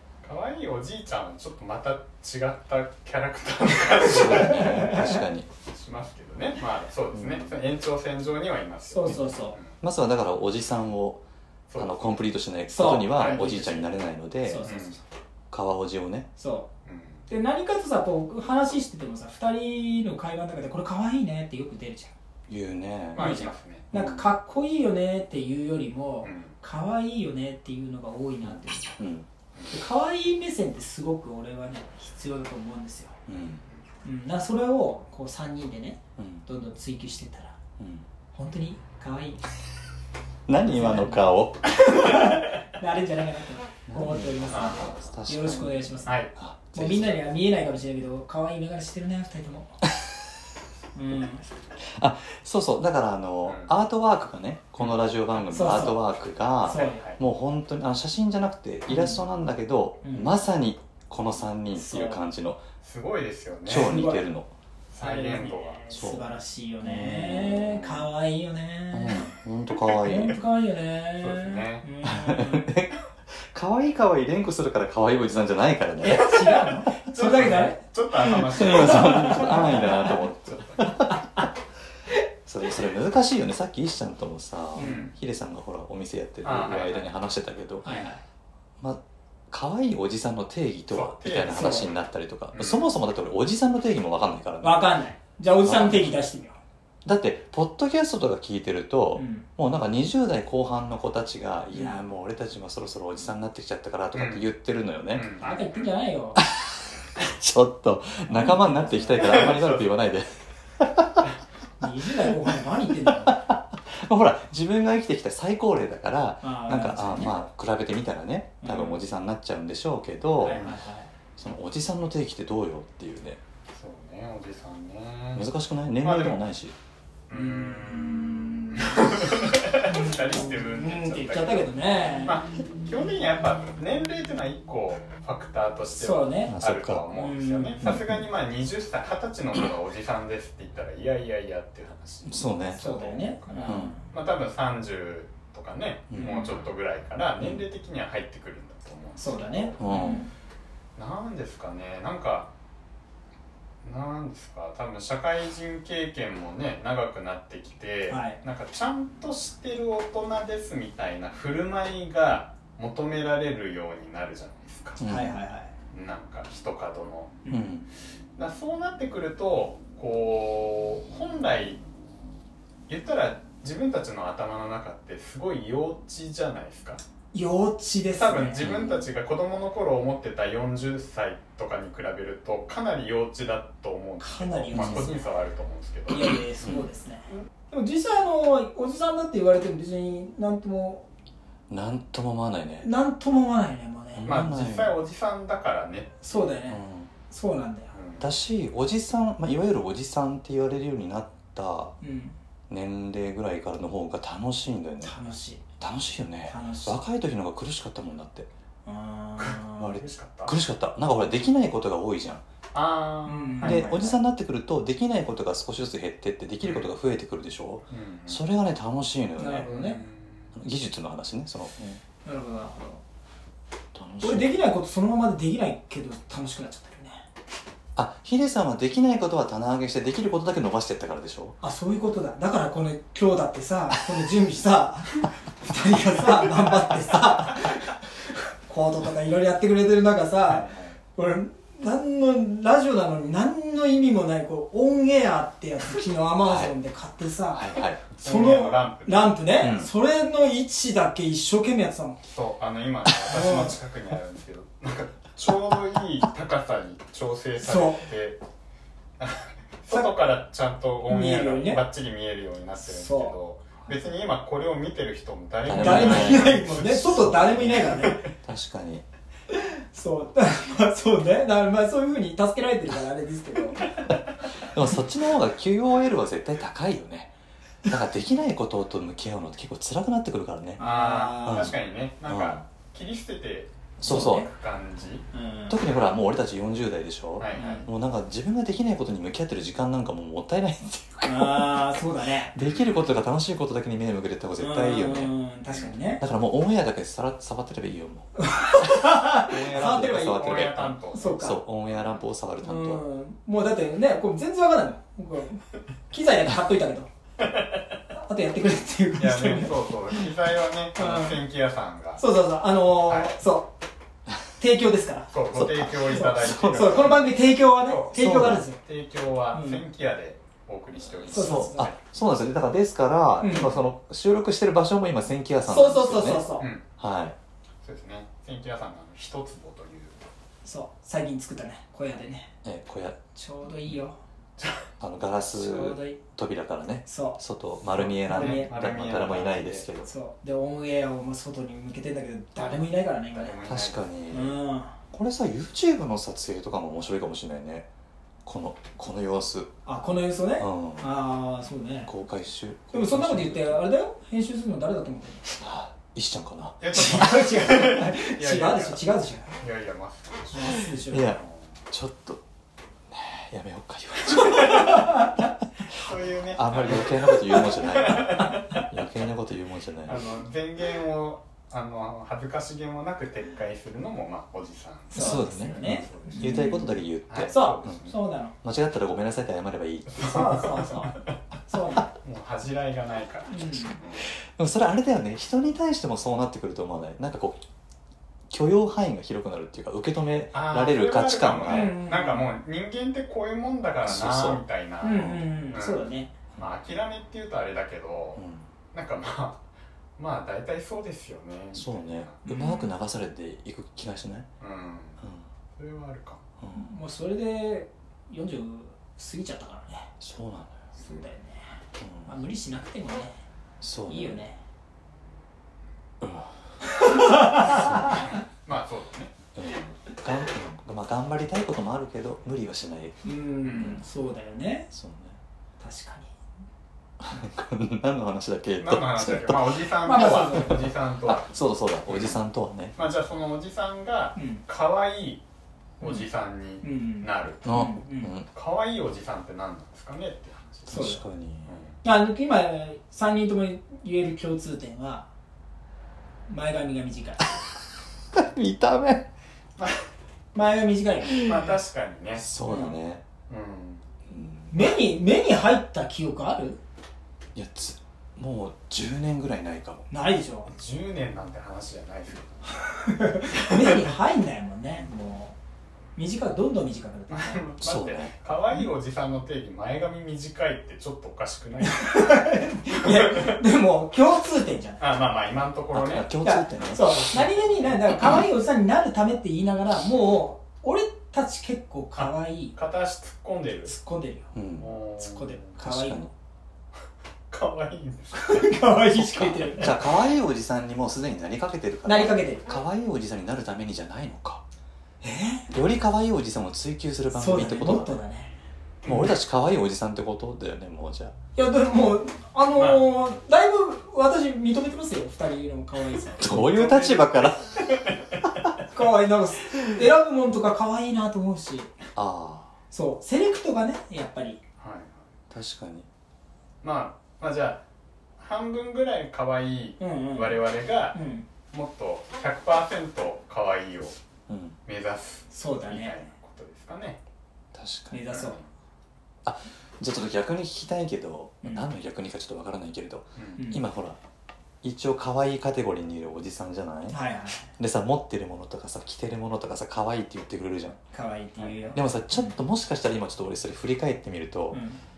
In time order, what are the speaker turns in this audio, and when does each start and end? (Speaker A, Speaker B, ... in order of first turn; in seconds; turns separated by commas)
Speaker A: 0.2-5.1, Speaker B: 4.0-5.5, Speaker C: 4.2-5.2, Speaker A: 5.7-9.8, Speaker C: 8.9-9.6, Speaker B: 9.8-11.2, Speaker A: 11.7-12.2, Speaker B: 11.8-14.7, Speaker C: 12.7-13.3, Speaker A: 13.0-14.0, Speaker C: 14.4-15.0, Speaker A: 14.6-15.0, Speaker B: 15.5-16.3, Speaker C: 16.4-16.7, Speaker A: 16.9-17.3, Speaker C: 17.3-22.1, Speaker B: 22.5-23.3, Speaker A: 23.1-23.9, Speaker C: 23.2-28.9, Speaker B: 23.9-24.3, Speaker A: 26.2-26.5, Speaker B: 28.4-29.3, Speaker C: 29.7-33.2, Speaker B: 33.3-33.6, Speaker C: 34.0-37.6, Speaker B: 36.2-36.5, Speaker B: 37.8-38.1, Speaker C: 38.3-39.4, Speaker B: 40.5-41.9, Speaker C: 40.7-41.3, Speaker C: 41.8-46.2, Speaker B: 43.9-47.2, Speaker A: 44.5-45.0, Speaker A: 46.1-46.3, Speaker C: 46.7-49.8, Speaker C: 51.0-51.5, Speaker B: 51.8-62.6, Speaker A: 53.5-53.7, Speaker C: 55.5-56.0, Speaker C: 56.6-57.1, Speaker A: 56.7-57.2, Speaker C: 58.9-59.2, Speaker C: 60.0-60.3, Speaker A: 61.8-62.2, Speaker A: 62.8-64.1, Speaker B: 63.7-64.5, Speaker C: 63.7-64.3, Speaker A: 64.9-65.8, Speaker C: 65.0-69.3, Speaker B: 65.9-68.0, Speaker B: 68.9-70.4, Speaker A: 69.7-70.1, Speaker C: 70.0-72.7, Speaker A: 71.2-71.9, Speaker B: 72.0-76.3, Speaker C: 76.0-80.2, Speaker A: 76.3-80.8, Speaker B: 78.5-81.2, Speaker C: 81.1-81.5, Speaker B: 82.5-88.0, Speaker C: 84.8-85.1, Speaker A: 84.8-85.1, Speaker A: 86.4-87.1, Speaker C: 87.8-88.2, Speaker B: 88.8-94.9, Speaker A: 90.9-91.9, Speaker C: 91.5-91.9, Speaker A: 92.5-92.9, Speaker C: 94.6-96.6, Speaker B: 95.6-96.1, Speaker B: 97.0-105.3, Speaker C: 99.2-99.5, Speaker C: 101.7-102.0, Speaker A: 104.1-104.5, Speaker A: 105.1-105.9, Speaker C: 105.4-106.4, Speaker B: 106.4-111.3, Speaker C: 108.3-109.4, Speaker A: 109.2-109.9, Speaker C: 111.8-113.4, Speaker B: 113.2-120.6, Speaker C: 116.4-117.4, Speaker C: 118.6-119.0, Speaker A: 120.4-120.8, Speaker C: 120.5-121.1, Speaker B: 121.4-123.4, Speaker A: 123.7-125.5, Speaker B: 125.3-126.8, Speaker A: 126.0-126.4, Speaker A: 127.3-131.7, Speaker C: 127.3-129.2, Speaker C: 129.8-132.4, Speaker A: 132.2-150.1, Speaker C: 136.0-136.6, Speaker B: 136.5-137.1, Speaker C: 137.1-137.8, Speaker B: 137.8-138.2, Speaker B: 142.2-142.9, Speaker C: 142.8-144.1, Speaker B: 143.7-143.9, Speaker B: 146.1-146.4, Speaker C: 146.2-146.6, Speaker C: 149.2-150.3, Speaker B: 149.8-150.2, Speaker A: 151.0-152.5, Speaker A: 153.8-165.0, Speaker C: 158.1-158.4, Speaker B: 165.0-165.3, Speaker C: 165.0-165.7, Speaker A: 165.9-167.4, Speaker B: 167.5-167.9, Speaker A: 168.4-171.8, Speaker A: 172.9-177.0, Speaker C: 177.3-179.0, Speaker A: 178.2-186.3, Speaker B: 178.6-178.9, Speaker C: 184.2-185.3, Speaker B: 184.7-185.1, Speaker C: 186.1-191.1, Speaker B: 191.7-192.9, Speaker C: 192.8-194.3, Speaker B: 194.1-195.0, Speaker A: 194.2-196.5, Speaker C: 196.2-197.9, Speaker B: 196.7-197.1, Speaker A: 197.9-198.3, Speaker B: 198.2-201.9, Speaker C: 202.0-202.4, Speaker B: 202.7-205.2, Speaker C: 205.0-205.6, Speaker B: 205.8-208.5, Speaker C: 206.5-207.0, Speaker C: 208.8-210.0, Speaker A: 209.4-210.6, Speaker B: 209.8-212.4, Speaker A: 212.7-214.0, Speaker C: 213.3-214.2, Speaker B: 213.6-219.7, Speaker A: 216.6-216.9, Speaker A: 217.9-218.4, Speaker C: 219.4-220.0, Speaker A: 219.6-220.5, Speaker B: 220.6-222.0, Speaker C: 222.2-223.0, Speaker B: 223.9-224.6, Speaker C: 224.2-227.3, Speaker B: 227.9-231.6, Speaker C: 231.6-252.2, Speaker A: 240.5-241.0, Speaker B: 246.5-246.7, Speaker B: 247.5-248.0, Speaker A: 248.2-249.4, Speaker B: 249.6-249.9, Speaker A: 252.2-258.4, Speaker C: 253.3-253.8, Speaker C: 257.6-258.1, Speaker A: 259.2-267.0, Speaker C: 261.1-261.8, Speaker C: 262.9-263.3, Speaker B: 265.7-269.1, Speaker C: 265.7-268.3, Speaker C: 269.5-273.9, Speaker B: 274.1-277.3, Speaker B: 277.9-280.8, Speaker C: 280.8-281.7, Speaker A: 280.8-285.3, Speaker B: 281.4-281.8, Speaker B: 282.3-282.6, Speaker B: 284.0-284.5, Speaker C: 284.1-284.5, Speaker C: 285.3-285.8, Speaker B: 285.7-292.0, Speaker A: 287.4-287.9, Speaker C: 287.5-287.9, Speaker C: 291.2-292.5, Speaker B: 292.5-295.3, Speaker A: 292.6-293.1, Speaker C: 294.6-296.2, Speaker B: 296.2-303.0, Speaker C: 298.4-300.5, Speaker A: 299.5-302.2, Speaker C: 301.1-301.6, Speaker C: 302.6-307.1, Speaker A: 307.4-307.7, Speaker C: 308.2-309.7, Speaker A: 309.2-312.2, Speaker C: 311.0-311.4, Speaker C: 312.2-313.7, Speaker A: 313.1-313.4, Speaker C: 314.6-315.3, Speaker A: 315.3-322.0, Speaker B: 315.6-317.2, Speaker C: 316.1-318.8, Speaker B: 318.1-318.6, Speaker C: 319.5-319.8, Speaker B: 321.3-326.5, Speaker C: 321.3-321.9, Speaker C: 323.4-323.7, Speaker C: 325.7-326.7, Speaker A: 326.6-326.9, Speaker B: 327.0-327.4, Speaker A: 327.8-330.2, Speaker C: 330.6-332.5, Speaker B: 332.6-333.2, Speaker C: 333.4-334.2, Speaker A: 334.6-334.8, Speaker B: 335.0-340.1, Speaker C: 335.5-336.2, Speaker C: 337.1-337.4, Speaker A: 337.9-339.9, Speaker C: 338.2-338.7, Speaker C: 340.0-343.6, Speaker A: 343.3-344.1, Speaker B: 343.6-344.6, Speaker C: 344.3-345.0, Speaker B: 345.1-347.9, Speaker B: 348.4-349.7, Speaker C: 349.9-352.1, Speaker B: 350.6-351.1, Speaker B: 352.1-353.8, Speaker C: 352.9-355.6, Speaker B: 355.6-357.3, Speaker A: 356.8-359.0, Speaker C: 356.9-359.6, Speaker A: 359.6-361.8, Speaker C: 360.5-361.3, Speaker B: 361.1-361.4, Speaker B: 361.9-362.4, Speaker B: 363.1-365.4, Speaker C: 364.6-365.3, Speaker A: 366.0-368.8, Speaker B: 366.5-370.2, Speaker A: 370.1-376.7, Speaker C: 375.1-376.9, Speaker B: 375.1-378.0, Speaker A: 377.3-378.2, Speaker C: 377.5-378.5, Speaker B: 378.6-380.6, Speaker A: 380.1-381.4, Speaker C: 380.2-382.1, Speaker A: 382.2-384.3, Speaker C: 383.5-384.0, Speaker B: 384.3-387.6, Speaker B: 388.5-391.9, Speaker A: 390.5-399.6, Speaker C: 391.7-392.5, Speaker B: 394.0-394.6, Speaker C: 395.0-396.3, Speaker B: 398.4-398.7, Speaker A: 400.2-402.4, Speaker B: 401.8-404.5, Speaker C: 402.4-402.9, Speaker A: 404.6-405.2, Speaker B: 405.2-405.5, Speaker A: 405.8-406.4, Speaker B: 406.6-406.9, Speaker C: 406.7-410.1, Speaker B: 410.2-410.8, Speaker C: 411.0-413.4, Speaker B: 412.0-412.4, Speaker B: 413.8-414.4, Speaker C: 414.1-414.6, Speaker B: 416.2-416.6, Speaker C: 417.0-418.2, Speaker B: 417.4-418.2, Speaker A: 418.6-419.4, Speaker B: 419.6-423.2, Speaker C: 423.2-424.9, Speaker A: 423.6-424.0, Speaker B: 424.9-425.4, Speaker C: 425.8-426.4, Speaker B: 427.2-432.9, Speaker A: 428.8-431.5, Speaker C: 430.0-430.8, Speaker A: 432.1-432.4, Speaker A: 432.9-435.4, Speaker C: 434.4-434.6, Speaker A: 436.0-437.6, Speaker C: 436.8-438.3, Speaker B: 437.6-438.5, Speaker A: 438.5-441.1, Speaker B: 440.9-441.7, Speaker C: 440.9-441.2, Speaker A: 441.7-442.0, Speaker C: 442.0-445.3, Speaker C: 446.5-447.5, Speaker B: 448.3-449.3, Speaker A: 449.8-450.1, Speaker C: 450.5-451.6, Speaker A: 451.3-452.5, Speaker B: 452.4-453.2, Speaker C: 452.6-453.0, Speaker A: 453.5-454.1, Speaker B: 454.3-454.9, Speaker C: 454.7-456.8, Speaker B: 457.6-460.1, Speaker C: 460.1-460.7, Speaker A: 460.7-462.6, Speaker C: 462.8-465.6, Speaker C: 466.2-467.6, Speaker A: 467.3-473.6, Speaker B: 467.8-468.3, Speaker C: 471.8-475.0, Speaker A: 475.0-476.3, Speaker B: 475.9-477.5, Speaker C: 476.4-482.8, Speaker A: 482.2-483.9, Speaker C: 483.9-484.5, Speaker B: 484.5-484.9, Speaker A: 484.8-485.7, Speaker C: 485.2-486.3, Speaker B: 485.8-486.3, Speaker A: 487.5-488.7, Speaker C: 488.3-490.0, Speaker B: 489.1-494.6, Speaker C: 492.1-492.7, Speaker C: 495.2-495.7, Speaker B: 495.7-498.2, Speaker C: 497.3-498.6, Speaker A: 499.1-499.3, Speaker B: 499.1-501.4, Speaker C: 501.6-506.6, Speaker A: 502.8-503.1, Speaker B: 506.4-507.8, Speaker A: 506.4-508.7, Speaker C: 508.9-511.9, Speaker B: 512.1-512.8, Speaker C: 512.9-514.6, Speaker A: 514.8-515.3, Speaker B: 515.5-516.1, Speaker A: 516.8-517.8, Speaker A: 518.4-521.2, Speaker C: 520.0-521.5, Speaker A: 521.7-524.2, Speaker B: 524.5-524.8, Speaker A: 524.9-527.2, Speaker C: 525.5-526.3, Speaker B: 527.7-528.2, Speaker C: 528.1-528.6, Speaker A: 528.3-528.7, Speaker B: 529.4-534.2, Speaker C: 531.6-531.9, Speaker A: 533.4-533.6, Speaker C: 533.6-533.8, Speaker B: 534.8-537.2, Speaker C: 537.1-537.7, Speaker B: 537.8-541.0, Speaker C: 541.1-542.6, Speaker A: 541.6-541.9, Speaker B: 542.0-544.8, Speaker C: 544.7-545.0